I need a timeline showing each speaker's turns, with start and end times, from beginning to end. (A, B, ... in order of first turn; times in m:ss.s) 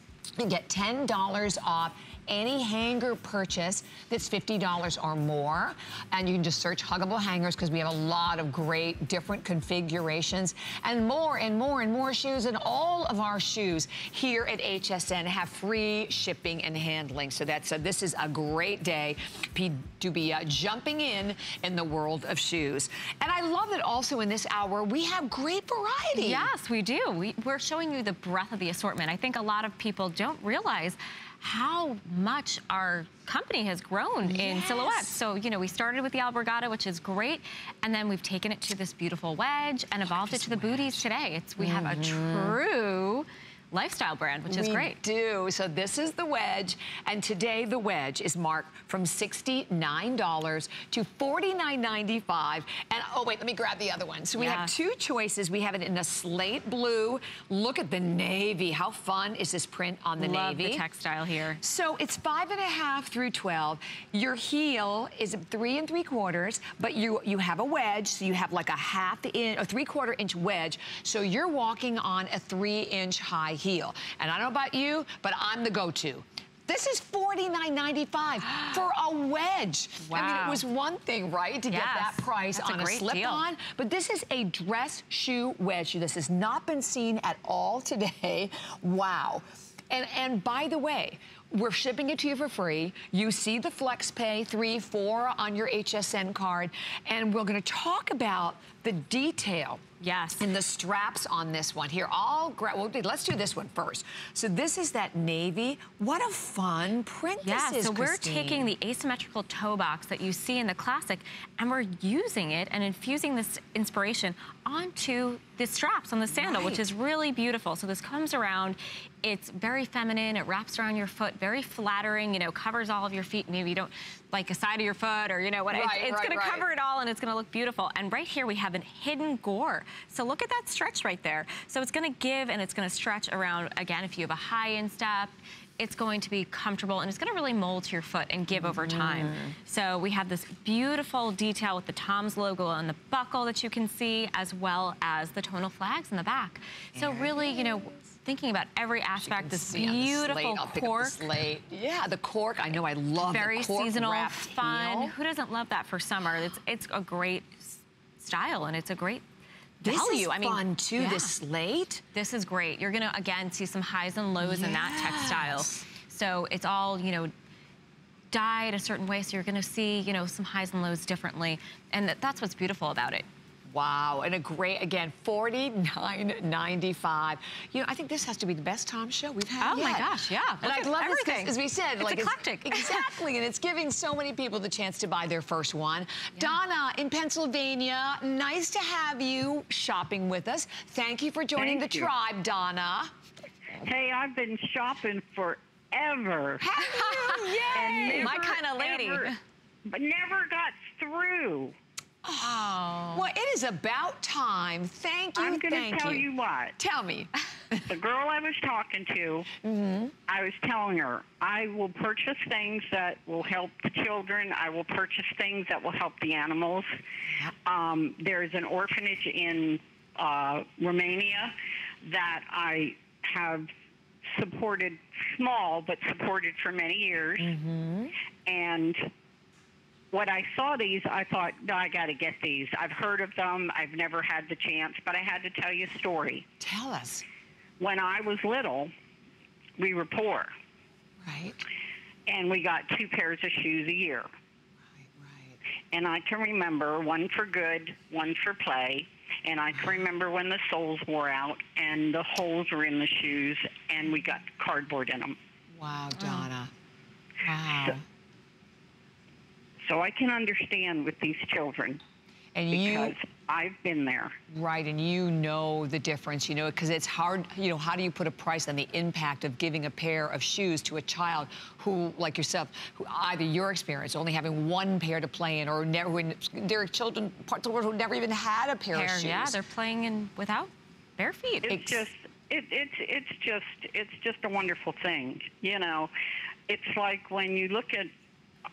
0:00.4-0:26.5 A
0:26.2-0:45.0 B
0:34.2-0:35.1 A
0:40.1-0:41.1 A
0:41.6-0:42.6 A
0:44.5-1:00.8 A
0:54.4-0:54.7 B
1:00.2-1:01.6 B
1:01.6-1:39.8 A
1:18.5-1:18.8 B
1:20.1-1:20.6 B
1:21.7-1:23.4 B
1:40.0-1:40.5 B
1:40.4-1:48.7 A
1:47.4-2:31.3 B
1:56.3-1:56.8 A
2:05.7-2:06.7 A
2:18.5-2:19.6 A
2:27.0-2:28.0 A
2:29.2-2:35.1 A
2:33.2-2:39.2 B
2:39.8-2:42.0 A
2:39.8-2:41.3 B
2:42.1-2:47.3 B
2:44.4-2:45.9 A
2:48.3-2:53.3 B
2:53.7-3:13.1 A
2:59.6-3:03.1 B
3:11.6-3:12.1 C
3:13.8-3:16.6 C
3:16.6-3:18.6 A
3:16.9-3:19.4 B
3:17.7-3:19.3 C
3:19.9-3:21.8 C
3:22.2-3:26.3 A
3:22.4-3:23.2 B
3:25.4-3:26.8 C
3:26.8-3:27.9 A
3:27.9-3:29.5 C
3:29.6-3:30.1 A
3:30.3-3:36.9 C
3:37.7-3:43.7 C
3:44.3-3:47.5 C
3:47.4-3:48.1 A
3:48.5-3:49.1 C
3:50.1-3:56.4 C
3:56.6-3:57.2 A
3:57.8-3:58.9 C
3:59.8-4:00.5 C
4:01.2-4:01.6 A
4:02.3-4:04.3 C
4:05.0-4:05.6 A
4:05.9-4:15.4 C
4:15.7-4:16.7 A
4:17.4-4:18.0 A
4:19.9-4:22.0 C
4:22.6-4:23.1 A
4:22.7-4:24.4 C
4:24.5-4:39.6 A
4:38.9-4:41.8 B
4:41.7-4:46.1 C
4:41.7-4:42.0 A
4:46.7-4:48.1 C